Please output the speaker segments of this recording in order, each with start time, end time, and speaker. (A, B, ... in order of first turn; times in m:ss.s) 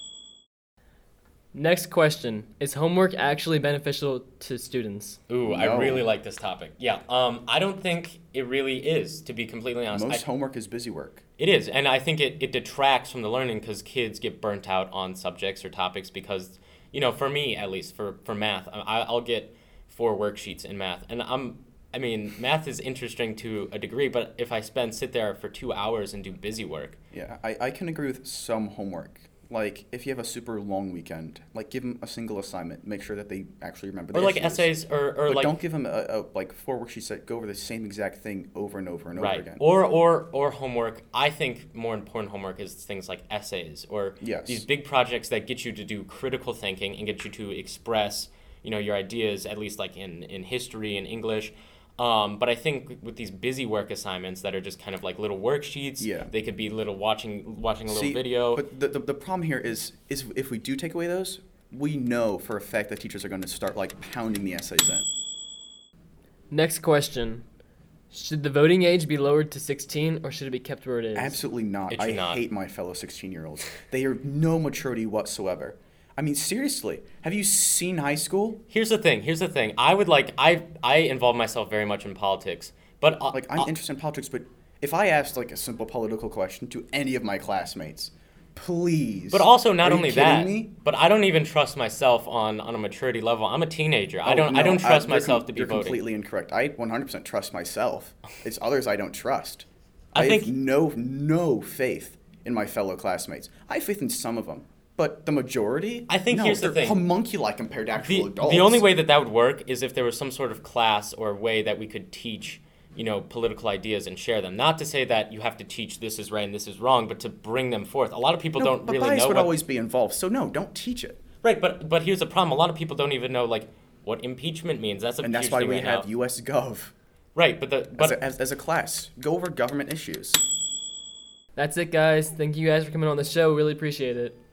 0:01.5-0:05.2 A
0:05.3-0:10.2 B
0:05.5-0:06.1 C
0:09.9-0:11.2 C
0:11.4-0:27.0 B
0:27.1-0:34.7 C
0:34.1-0:35.6 B
0:35.3-0:39.6 C
0:39.2-0:58.6 B
0:44.2-0:44.6 C
0:56.0-0:56.3 C
0:57.9-1:05.0 C
1:06.5-1:07.4 A
1:08.1-1:11.4 A
1:11.2-1:18.6 C
1:11.9-1:12.4 B
1:18.7-1:23.7 B
1:23.3-1:30.7 C
1:29.3-1:36.0 B
1:34.2-1:48.8 C
1:40.2-1:40.5 B
1:46.1-1:47.0 B
1:48.0-1:59.5 B
1:58.6-2:01.2 C
2:01.4-2:06.1 B
2:05.2-2:06.9 C
2:07.4-2:08.2 B
2:08.0-2:10.4 C
2:11.6-2:14.4 A